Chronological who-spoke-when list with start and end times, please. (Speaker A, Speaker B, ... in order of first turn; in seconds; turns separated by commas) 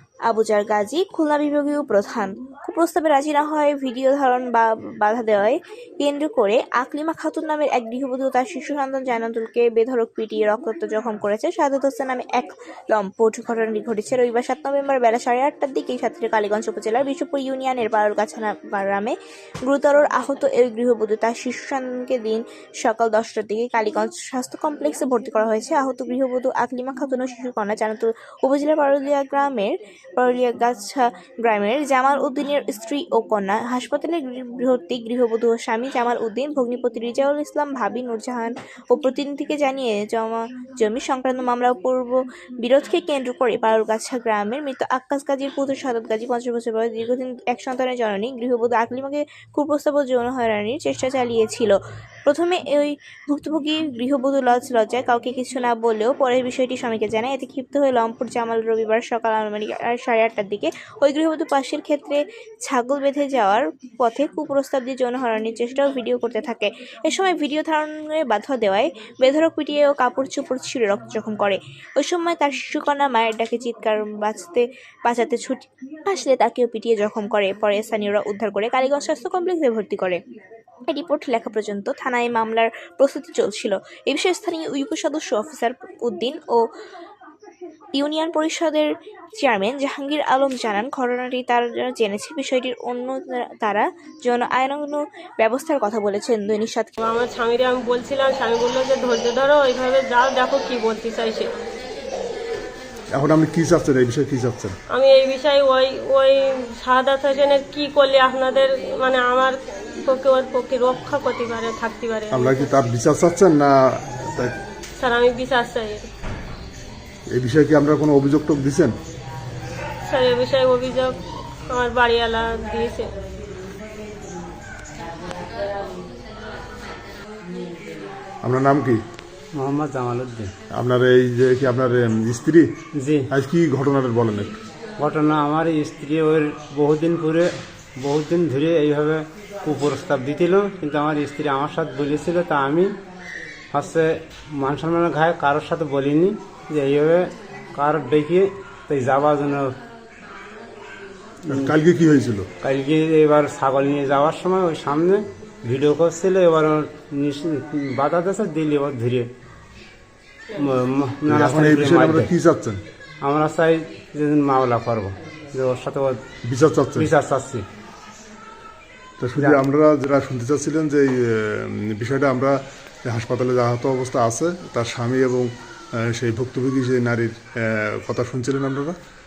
Speaker A: 0.2-80.2, Speaker A: 80.9-86.7, Speaker A: 87.9-97.0, Speaker B: 97.0-101.5, Speaker C: 103.1-104.8, Speaker B: 104.9-112.7, Speaker C: 112.3-114.5, Speaker B: 115.0-116.0, Speaker C: 117.3-118.9, Speaker B: 120.0-121.2, Speaker B: 121.7-123.1, Speaker C: 128.4-129.0, Speaker D: 129.5-130.5, Speaker C: 130.7-132.7, Speaker D: 132.9-133.3, Speaker C: 133.3-134.6, Speaker D: 135.0-143.0, Speaker D: 143.7-149.8, Speaker C: 151.5-152.5, Speaker D: 152.6-159.3, Speaker D: 160.6-162.3, Speaker C: 161.3-162.8, Speaker D: 163.2-166.2, Speaker C: 166.4-167.1, Speaker D: 166.9-167.7, Speaker C: 169.2-178.9